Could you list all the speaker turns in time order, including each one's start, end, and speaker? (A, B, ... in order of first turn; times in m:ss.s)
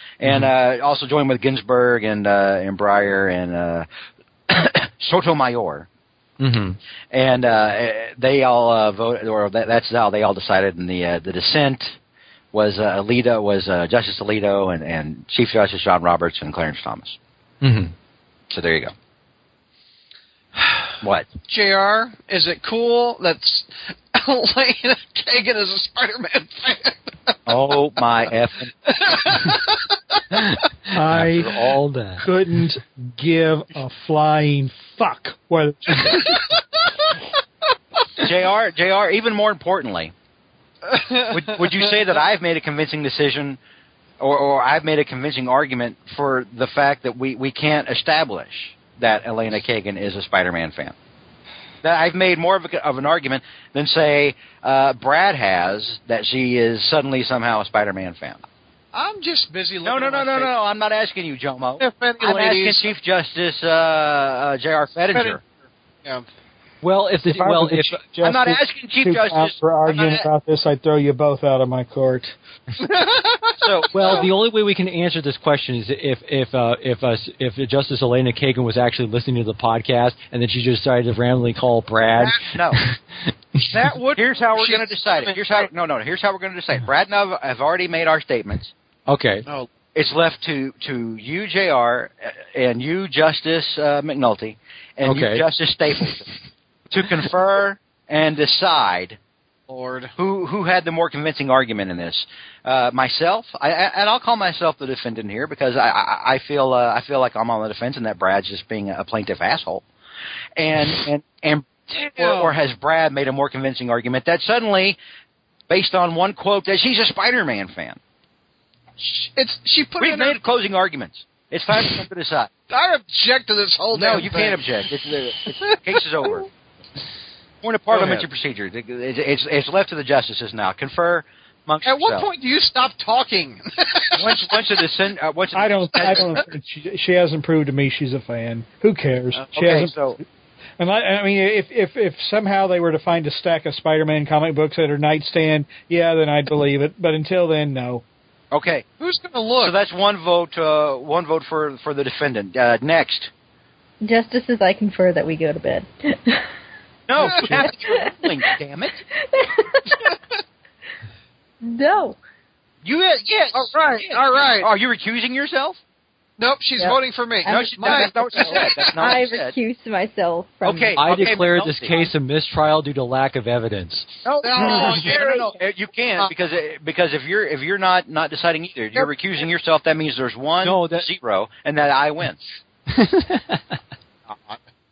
0:00.2-0:03.9 A
0:00.2-0:00.5 B
0:04.5-0:05.9 A
0:06.4-0:06.8 B
0:07.1-0:12.0 A
0:12.5-0:17.2 A
0:17.6-0:17.9 B
0:18.5-0:18.9 A
0:21.5-0:27.7 C
0:27.5-0:29.3 A
0:28.9-0:30.0 C
0:30.3-0:32.3 B
0:30.9-0:31.6 D
0:32.2-0:36.4 D
0:38.2-0:40.1 A
0:40.8-0:42.0 C
0:41.3-0:43.6 A
0:44.2-0:50.9 A
0:51.8-0:58.4 A
0:58.9-1:00.5 C
0:59.8-1:05.4 A
1:01.8-1:02.9 C
1:05.1-1:05.4 C
1:06.8-1:08.0 B
1:07.3-1:12.4 D
1:08.2-1:10.3 A
1:12.9-1:13.6 C
1:13.6-1:14.3 A
1:13.9-1:23.6 B
1:22.3-1:22.8 A
1:23.6-1:25.7 C
1:24.2-1:28.7 A
1:29.1-1:29.5 B
1:30.0-1:36.3 A
1:35.0-1:35.5 B
1:36.9-1:39.2 A
1:39.7-1:40.1 C
1:40.2-1:49.8 A
1:50.6-1:55.0 A
1:52.0-1:52.5 C
1:55.7-1:58.0 A
1:59.0-2:00.4 C
2:00.0-2:02.5 A
2:02.7-2:04.6 C
2:03.9-2:06.5 A
2:05.5-2:06.4 C
2:07.6-2:12.3 A
2:07.9-2:08.3 C
2:11.8-2:14.8 C
2:14.1-2:16.4 A
2:15.6-2:20.2 D
2:16.0-2:16.4 C
2:19.5-2:20.2 A
2:20.8-2:28.0 D
2:28.5-2:28.8 A
2:29.0-2:29.8 C
2:29.6-2:33.3 A
2:34.0-2:36.5 E
2:37.1-2:39.0 A
2:37.2-2:37.7 C
2:37.5-2:38.3 E
2:39.1-2:40.0 E
2:41.6-2:42.2 E
2:42.8-2:45.8 A
2:43.5-2:44.7 C
2:46.4-2:49.0 C
2:46.8-2:51.0 E
2:47.5-2:49.5 A
2:50.6-2:52.1 A
2:51.0-2:54.1 B
2:54.2-3:02.4 A
2:54.4-2:55.5 C
3:00.6-3:01.1 B
3:02.9-3:03.8 B